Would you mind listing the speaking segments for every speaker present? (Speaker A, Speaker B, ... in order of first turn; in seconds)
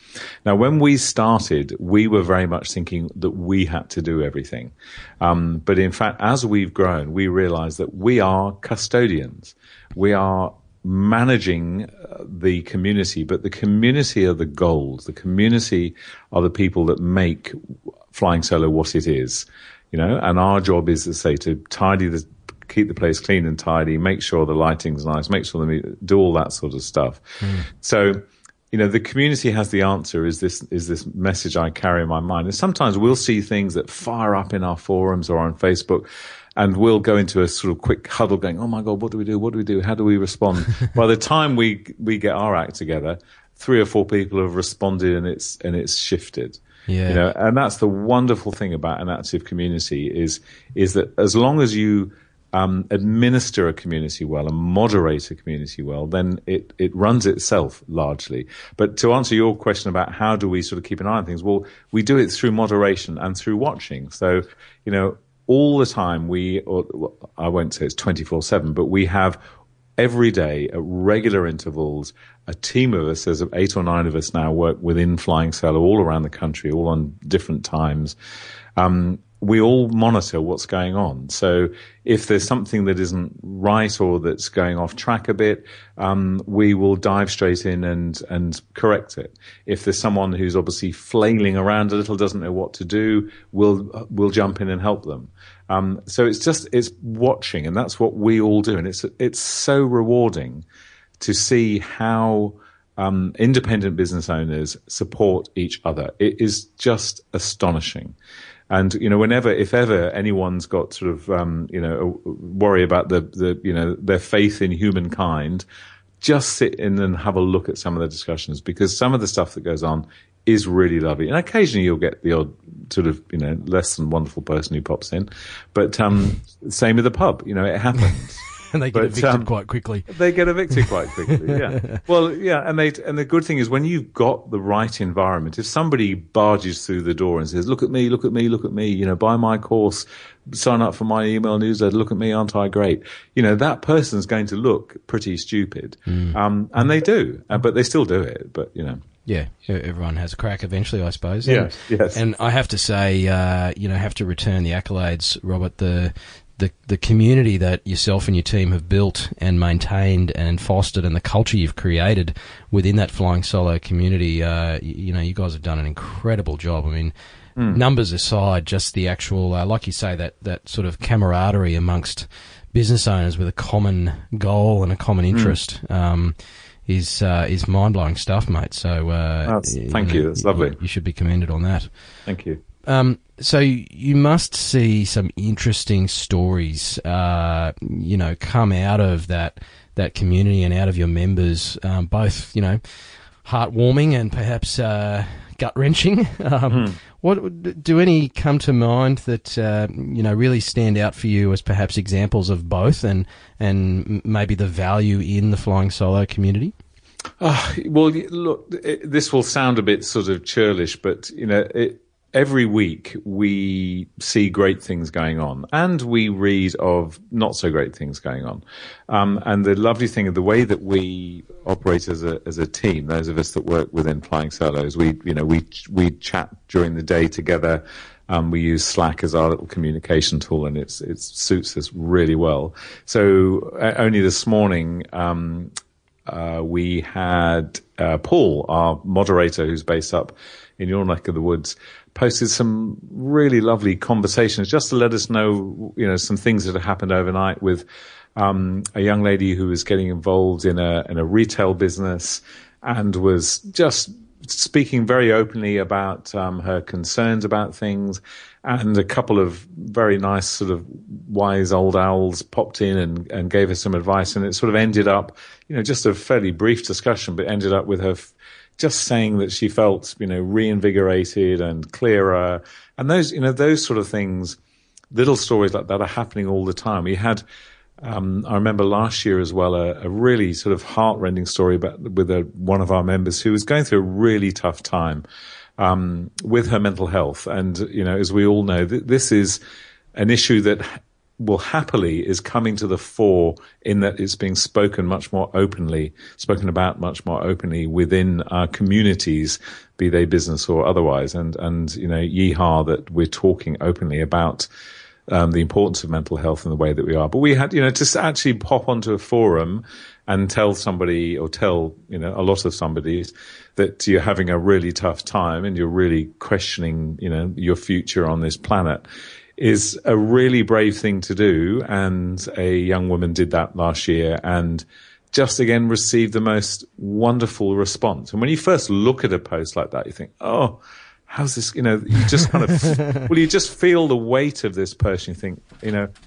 Speaker A: 0.4-17.6, 18.1-36.0, 36.6-69.4, 70.0-78.2, 78.8-100.6, 101.2-108.2, 108.7-115.6, 116.2-129.5, 130.1-149.0, 151.4-152.2, 167.6-167.8, 175.3-175.6, 179.4-180.8, 182.2-182.6, 196.7-196.9, 207.4-235.7, 236.2-247.8, 248.3-274.6, 275.1-277.4, 278.0-285.2, 285.8-289.6, 290.1-304.7, 305.3-319.0, 319.6-336.1
Speaker B: 27.4-27.7, 46.9-47.2, 128.7-130.2, 131.5-132.0, 146.1-146.4, 149.2-167.1, 167.7-182.2, 182.8-206.7